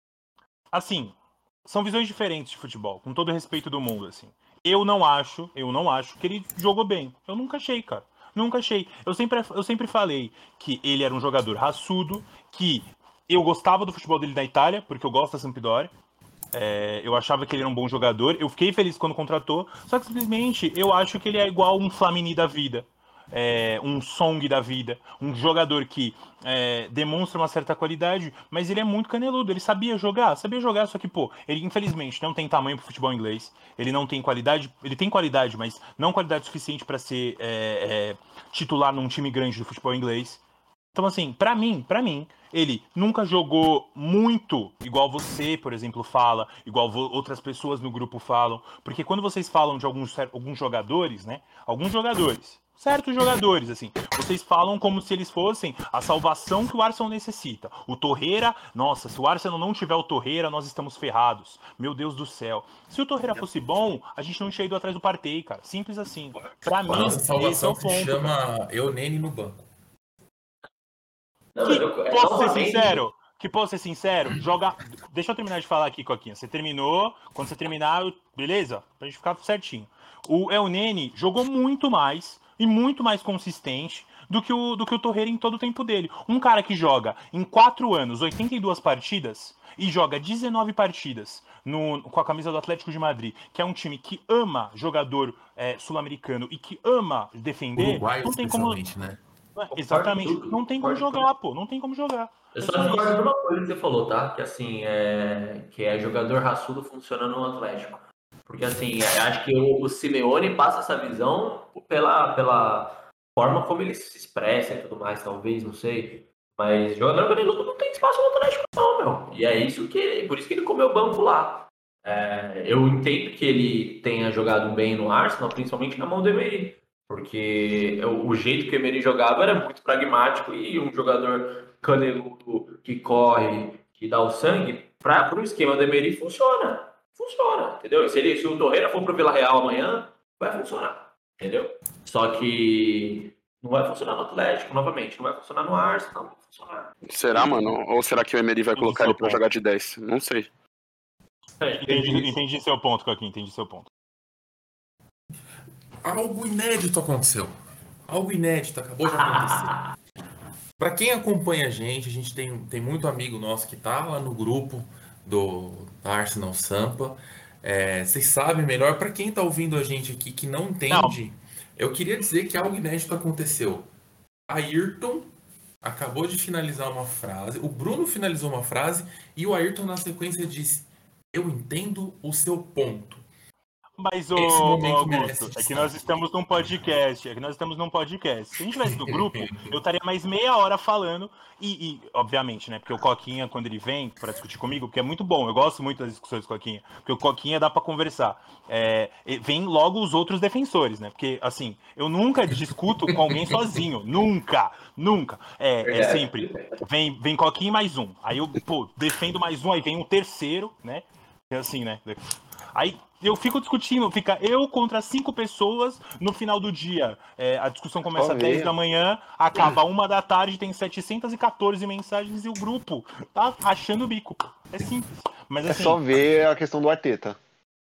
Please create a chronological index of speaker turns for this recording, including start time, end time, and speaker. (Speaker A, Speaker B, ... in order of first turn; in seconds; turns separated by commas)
Speaker A: 0.7-15.9, Speaker A: 16.5-40.4, Speaker A: 40.9-68.3, Speaker B: 66.8-69.7, Speaker C: 71.5-73.0, Speaker A: 71.6-98.8, Speaker B: 97.8-99.2, Speaker A: 99.5-103.2, Speaker C: 99.7-101.3, Speaker C: 102.5-147.7, Speaker D: 147.1-150.5, Speaker A: 148.7-149.4, Speaker C: 151.6-152.3, Speaker A: 151.8-153.9, Speaker B: 156.0-157.5, Speaker B: 158.1-159.8, Speaker C: 159.0-159.9, Speaker B: 160.8-173.9, Speaker A: 170.9-171.2, Speaker B: 174.5-175.3, Speaker B: 175.8-183.2, Speaker A: 184.0-212.2, Speaker B: 184.3-186.0, Speaker B: 188.9-189.7, Speaker C: 205.8-206.8, Speaker A: 212.7-226.0, Speaker E: 218.2-218.7, Speaker E: 225.7-227.4